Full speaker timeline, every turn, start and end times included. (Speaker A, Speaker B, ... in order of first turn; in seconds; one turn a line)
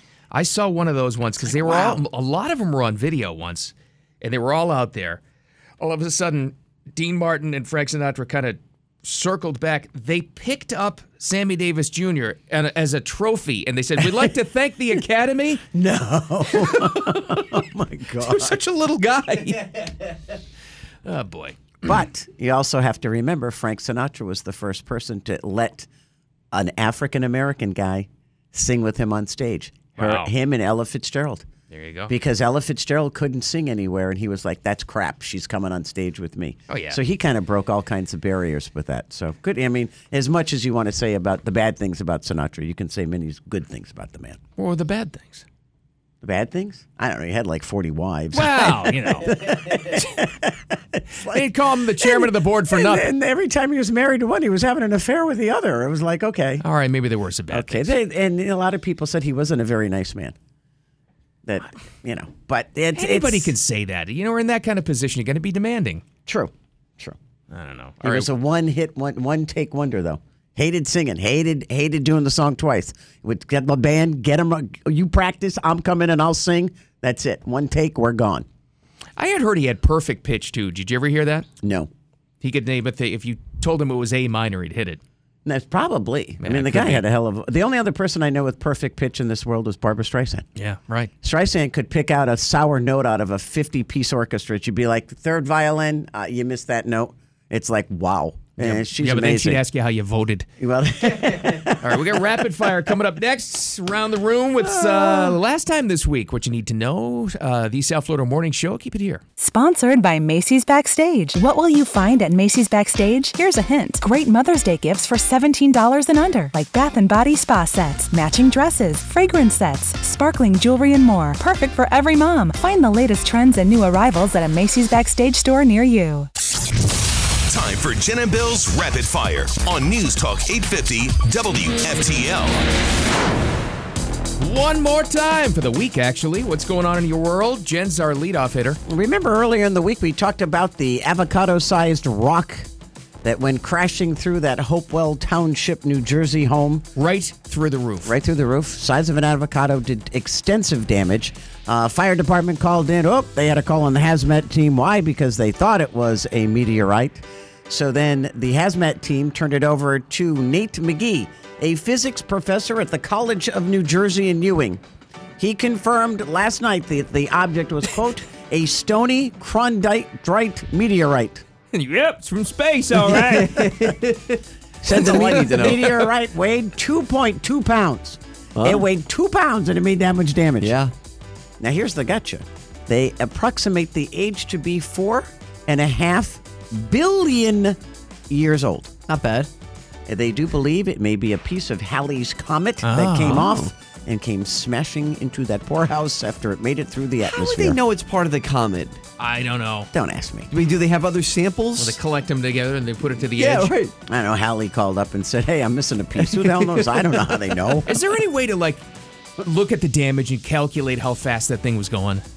Speaker A: 0.3-5.2
Speaker B: 1.4-2.0
Speaker A: 5.8-15.6
Speaker B: 15.7-18.6
Speaker A: 16.5-17.4
Speaker A: 18.2-20.1
Speaker A: 21.0-21.8
Speaker B: 21.8-25.9
Speaker B: 26.5-31.4
Speaker A: 30.0-30.3
Speaker A: 31.7-32.1
Speaker B: 32.1-44.4
Speaker A: 36.7-37.0
Speaker A: 44.6-45.4
Speaker B: 46.2-56.6
Speaker A: 48.3-49.4
Speaker A: 51.3-53.1
Speaker A: 56.6-57.9
Speaker B: 57.5-60.3
Speaker B: 61.4-63.5
Speaker A: 62.9-66.0
Speaker B: 66.2-67.2
Speaker A: 67.5-68.3
Speaker B: 68.0-78.5
Speaker A: 79.2-81.5
Speaker B: 81.6-81.9
Speaker A: 82.4-85.0
Speaker B: 85.4-90.5
Speaker A: 86.4-87.0
Speaker A: 90.5-91.1
Speaker B: 91.2-99.6
Speaker A: 98.6-100.5
Speaker B: 100.6-102.4
Speaker A: 101.8-109.2
Speaker B: 104.6-105.4
Speaker C: 109.4-126.3
Speaker D: 127.5-132.6
Speaker A: 134.4-138.8
Speaker B: 138.9-142.7
Speaker B: 143.2-146.8
Speaker A: 146.9-148.1
Speaker B: 148.0-164.8
Speaker B: 165.4-171.4
Speaker A: 171.7-173.7
Speaker E: 172.9-176.0
Speaker B: 174.8-180.8
Speaker E: 178.6-178.8
Speaker E: 180.6-180.9
Speaker B: 181.6-187.8
Speaker B: 188.3-188.9
Speaker E: 189.1-189.5
Speaker B: 190.1-197.8
Speaker A: 192.8-193.4
Speaker E: 193.3-193.7
Speaker E: 197.2-199.0
Speaker A: 199.2-199.9
Speaker B: 199.9-200.5
Speaker E: 200.5-202.0
Speaker A: 201.8-203.7
Speaker E: 203.2-203.9
Speaker B: 204.0-207.9
Speaker E: 206.2-207.4
Speaker A: 207.8-208.8
Speaker A: 209.4-212.2